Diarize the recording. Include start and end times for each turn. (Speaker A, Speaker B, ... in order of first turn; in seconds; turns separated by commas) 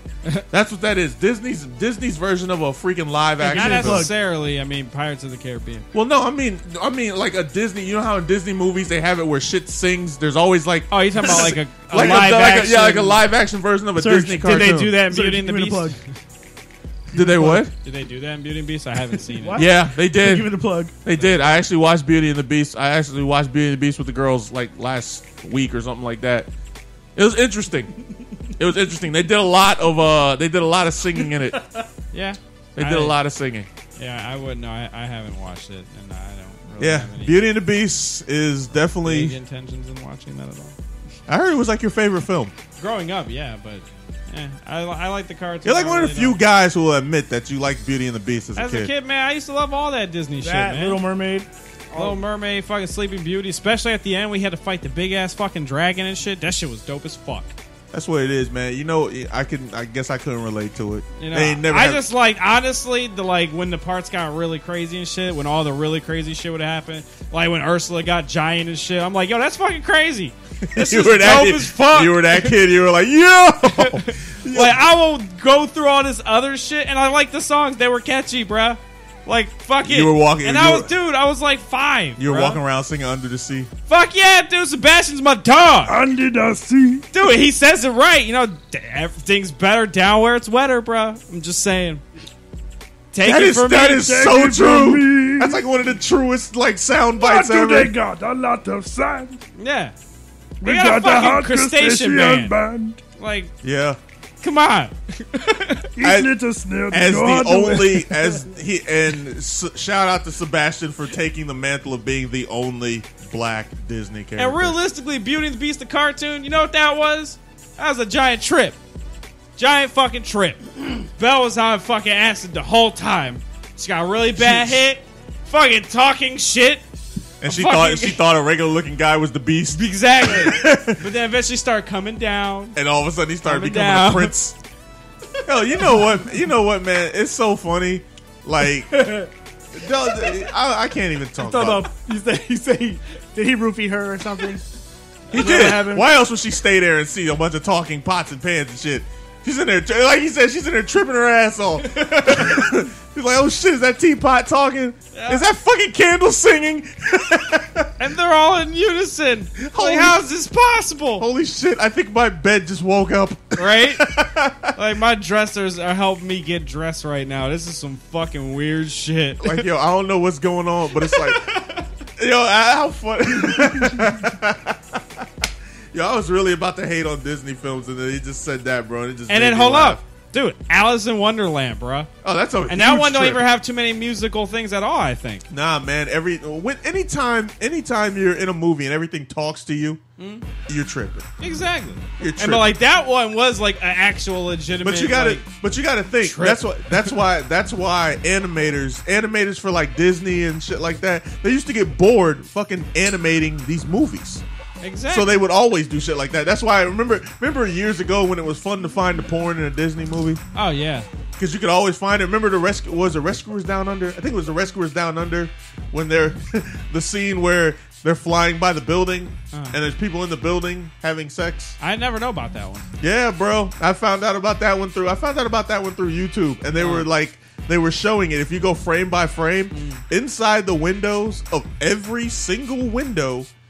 Speaker A: 0.5-4.1, Speaker B: 3.4-5.9, Speaker C: 3.5-4.1, Speaker A: 5.9-15.0, Speaker B: 10.9-13.2, Speaker C: 14.0-16.0, Speaker B: 14.4-16.2, Speaker C: 17.1-17.6, Speaker A: 17.1-17.7, Speaker B: 17.6-19.7, Speaker C: 19.3-20.9, Speaker A: 19.6-20.5, Speaker A: 21.0-26.5, Speaker B: 21.1-21.6, Speaker A: 27.1-27.9, Speaker A: 28.6-31.6, Speaker B: 32.1-33.2, Speaker A: 32.8-33.7, Speaker B: 34.0-37.4, Speaker A: 36.8-39.4, Speaker B: 38.7-40.8, Speaker A: 41.3-42.5, Speaker B: 42.8-46.4, Speaker A: 45.6-48.9, Speaker B: 48.6-51.0, Speaker C: 50.4-52.2, Speaker B: 51.9-57.5, Speaker A: 57.9-62.0, Speaker B: 61.2-72.6, Speaker A: 70.7-74.8, Speaker B: 73.6-82.6, Speaker A: 79.8-80.9, Speaker A: 82.2-83.7, Speaker B: 83.9-86.0, Speaker C: 85.9-87.1, Speaker B: 87.1-92.0, Speaker B: 93.1-94.1, Speaker A: 93.2-97.9, Speaker C: 94.0-95.6, Speaker C: 97.2-99.4, Speaker B: 99.5-100.0, Speaker B: 100.6-102.5, Speaker C: 100.6-103.0, Speaker B: 103.2-103.5, Speaker A: 103.6-104.0, Speaker B: 104.4-106.0, Speaker C: 106.0-108.4, Speaker A: 106.0-106.3, Speaker A: 106.9-114.8, Speaker B: 114.4-118.8, Speaker B: 119.6-126.8, Speaker A: 124.4-124.8, Speaker A: 127.4-131.0, Speaker B: 127.4-128.2, Speaker B: 129.7-132.8, Speaker A: 132.8-134.6, Speaker B: 133.4-134.4, Speaker A: 135.4-138.9, Speaker C: 138.9-139.3, Speaker A: 139.7-141.9, Speaker C: 140.0-140.4, Speaker C: 141.4-144.7, Speaker B: 145.3-145.7, Speaker A: 145.3-157.9, Speaker C: 145.3-146.1, Speaker B: 151.8-152.5, Speaker B: 155.1-155.4, Speaker B: 158.0-161.3, Speaker A: 159.6-160.2, Speaker A: 161.2-164.7, Speaker B: 163.6-164.2, Speaker B: 164.7-169.7, Speaker A: 169.4-171.4, Speaker B: 170.9-171.9, Speaker A: 172.2-180.0, Speaker B: 179.3-182.1, Speaker A: 182.2-183.4, Speaker B: 182.6-185.5, Speaker A: 185.5-190.0, Speaker B: 190.2-190.5, Speaker A: 190.6-191.3, Speaker B: 191.4-195.5, Speaker A: 192.2-192.7, Speaker A: 194.7-204.4, Speaker B: 196.2-197.2, Speaker B: 204.8-205.4, Speaker A: 205.1-210.4, Speaker B: 210.5-211.1, Speaker A: 211.4-221.8, Speaker B: 219.5-219.8, Speaker B: 221.8-222.9, Speaker A: 223.0-233.5, Speaker B: 226.7-227.1, Speaker B: 229.7-230.0